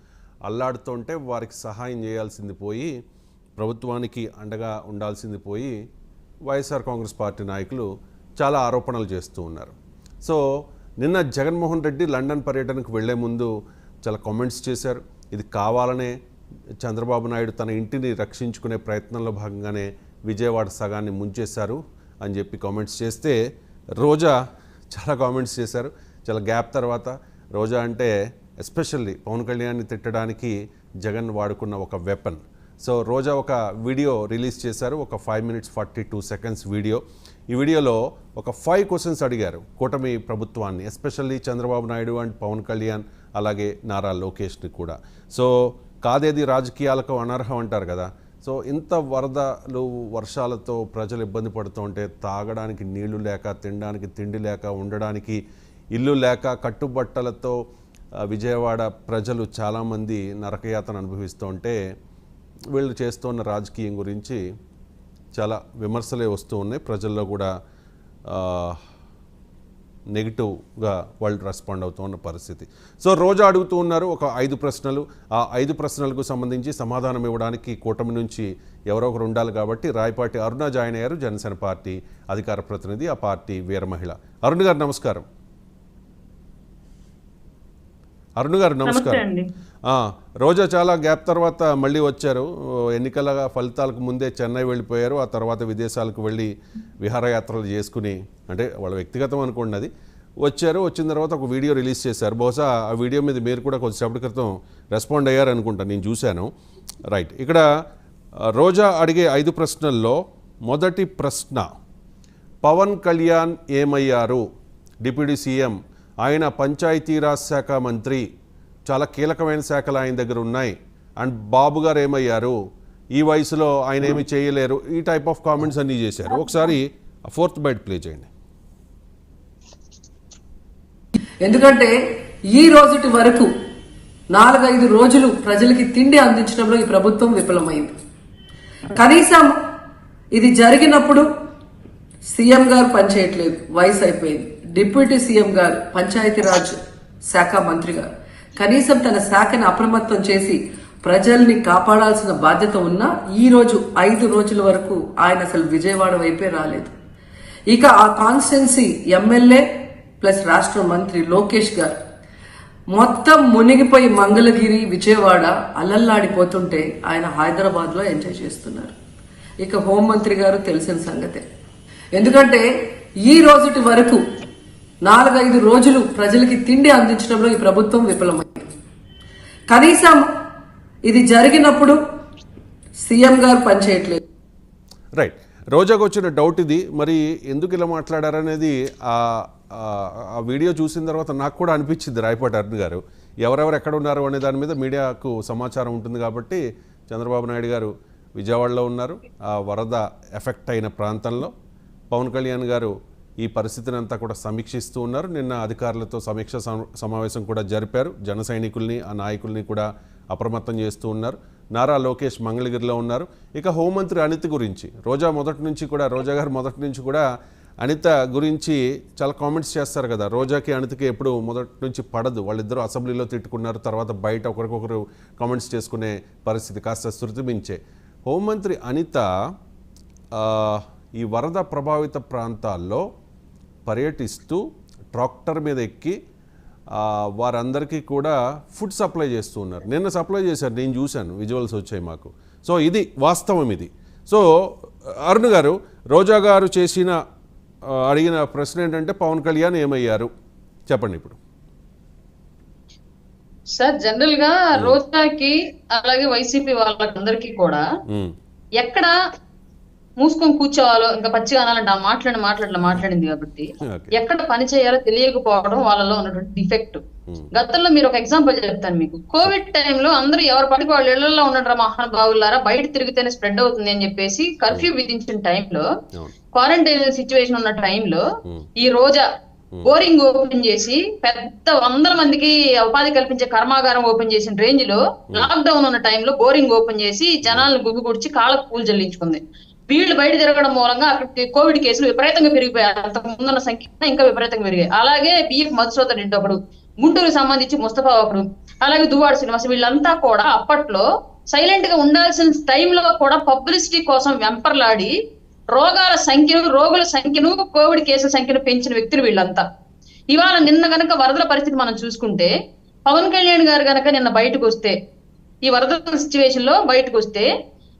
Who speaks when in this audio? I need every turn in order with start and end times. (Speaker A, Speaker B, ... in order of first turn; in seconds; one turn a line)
Speaker A: 0.5-2.9
Speaker A: 3.6-5.7
Speaker A: 6.5-7.9
Speaker A: 8.4-10.4
Speaker A: 11.0-13.5
Speaker A: 14.0-16.1
Speaker A: 16.8-23.4
Speaker A: 24.0-24.3
Speaker A: 24.9-37.0
Speaker A: 37.5-45.5
Speaker A: 46.0-55.4
Speaker A: 55.9-57.6
Speaker A: 58.3-61.8
Speaker A: 62.7-64.4
Speaker A: 65.4-67.5
Speaker A: 68.3-68.8
Speaker A: 70.2-85.2
Speaker A: 88.4-89.2
Speaker B: 88.8-89.5
Speaker A: 89.9-96.5
Speaker A: 97.0-99.9
Speaker A: 100.4-106.5
Speaker A: 107.1-107.7
Speaker A: 108.5-111.7
Speaker A: 112.6-114.4
Speaker A: 115.0-118.3
Speaker A: 118.9-122.6
Speaker A: 123.1-128.3
Speaker C: 131.4-131.9
Speaker C: 132.5-133.5
Speaker C: 134.3-137.9
Speaker C: 138.9-139.6
Speaker C: 140.3-141.3
Speaker C: 142.3-156.9
Speaker C: 157.7-159.7
Speaker C: 160.2-162.0
Speaker C: 162.9-168.9
Speaker C: 169.6-171.4
Speaker C: 172.2-172.7
Speaker C: 173.2-174.2
Speaker C: 175.1-178.7
Speaker C: 179.7-180.3
Speaker C: 181.1-182.0
Speaker C: 183.0-184.2
Speaker A: 185.2-201.5
Speaker A: 202.1-217.2
Speaker A: 217.8-229.2
Speaker A: 230.3-233.1
Speaker A: 233.9-236.2
Speaker A: 236.9-247.2
Speaker A: 247.9-250.3
Speaker A: 250.9-251.4
Speaker B: 253.8-257.8
Speaker A: 254.7-255.0
Speaker A: 258.1-258.4
Speaker B: 258.8-259.1
Speaker B: 260.2-275.9
Speaker A: 263.8-264.1
Speaker B: 276.5-278.2
Speaker B: 278.8-279.3
Speaker B: 279.8-305.1
Speaker A: 287.4-287.7
Speaker B: 305.7-309.6
Speaker B: 310.3-312.5
Speaker B: 313.1-314.9
Speaker B: 315.6-317.5